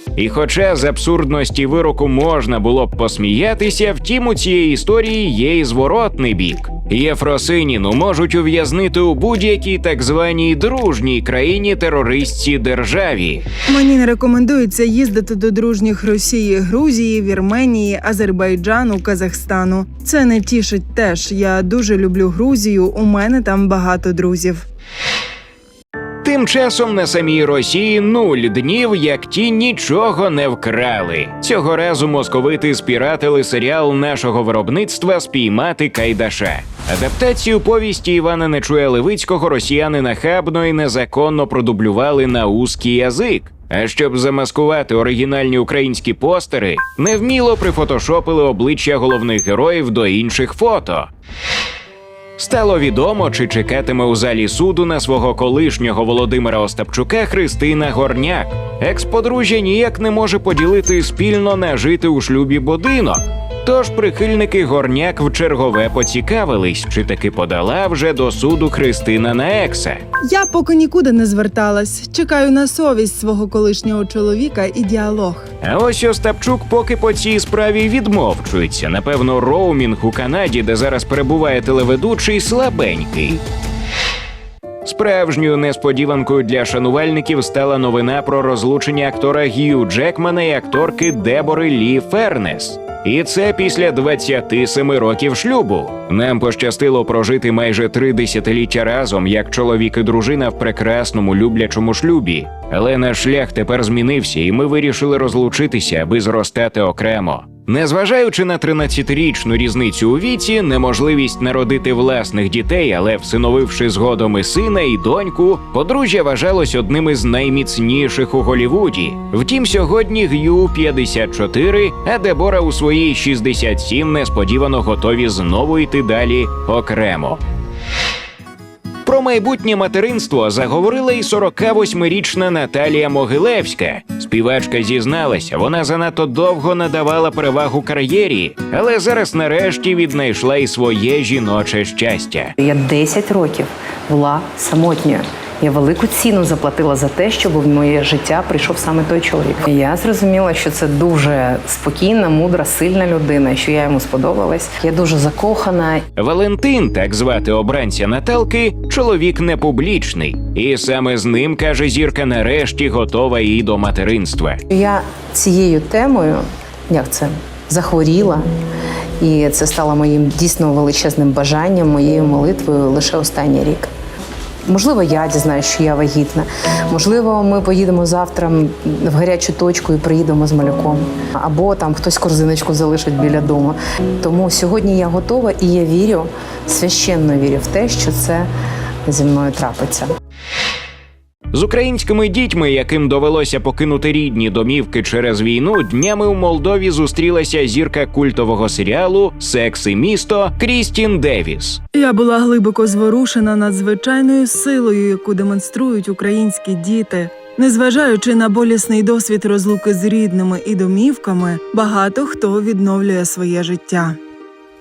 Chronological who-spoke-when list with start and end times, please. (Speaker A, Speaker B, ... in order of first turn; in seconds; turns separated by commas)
Speaker A: 0.2-13.4, Speaker B: 13.7-24.6, Speaker A: 26.2-51.1, Speaker A: 52.4-70.0, Speaker B: 70.3-75.5, Speaker A: 75.6-83.4, Speaker A: 84.8-127.4, Speaker A: 129.1-142.5, Speaker C: 142.6-156.0, Speaker A: 156.2-164.6, Speaker C: 164.7-168.4, Speaker C: 169.2-173.9, Speaker C: 174.7-188.5, Speaker C: 189.1-190.1, Speaker A: 191.5-201.8, Speaker B: 202.0-214.2